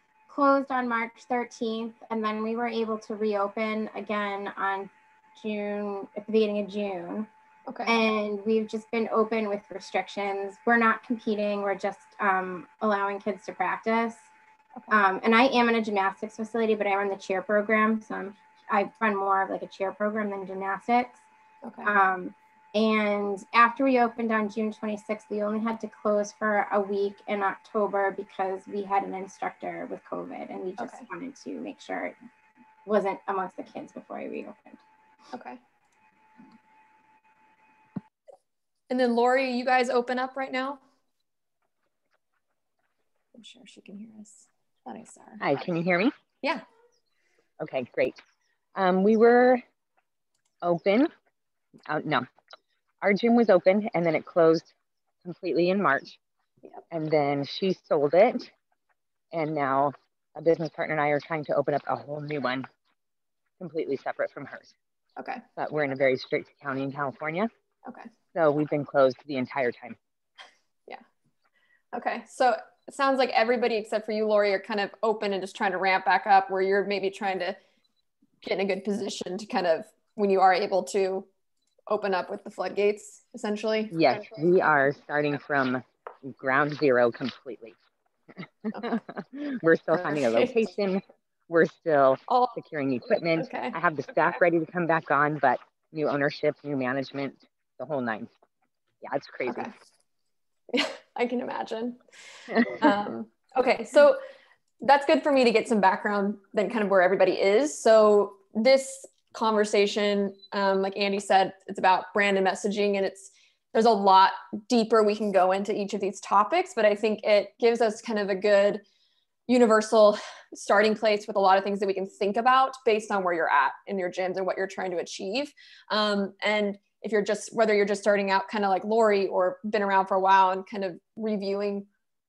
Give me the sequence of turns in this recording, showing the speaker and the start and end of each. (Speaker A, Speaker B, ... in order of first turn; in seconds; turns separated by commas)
Speaker A: 0.3-7.3, Speaker B: 7.7-8.0, Speaker A: 7.9-14.2, Speaker A: 14.9-21.2, Speaker B: 21.6-21.9, Speaker A: 21.8-32.2, Speaker B: 30.8-31.1, Speaker A: 32.9-34.8, Speaker B: 35.3-35.6, Speaker B: 38.9-40.8, Speaker B: 43.4-45.4, Speaker C: 45.4-46.1, Speaker C: 47.6-48.2, Speaker C: 48.8-49.6, Speaker C: 50.6-51.1, Speaker C: 51.9-52.3, Speaker C: 53.0-54.7, Speaker C: 55.2-56.2, Speaker C: 56.9-58.5, Speaker C: 59.3-62.7, Speaker C: 63.6-64.7, Speaker B: 65.2-65.4, Speaker C: 65.6-67.5, Speaker C: 68.3-70.0, Speaker B: 71.9-77.6, Speaker B: 78.4-81.3, Speaker B: 81.9-84.0, Speaker C: 83.9-87.8, Speaker C: 88.7-98.3, Speaker B: 89.9-90.5, Speaker B: 92.3-92.6, Speaker B: 93.4-93.8, Speaker C: 99.0-99.7, Speaker B: 100.7-102.0, Speaker B: 102.8-104.2, Speaker B: 104.8-118.8, Speaker B: 119.5-131.9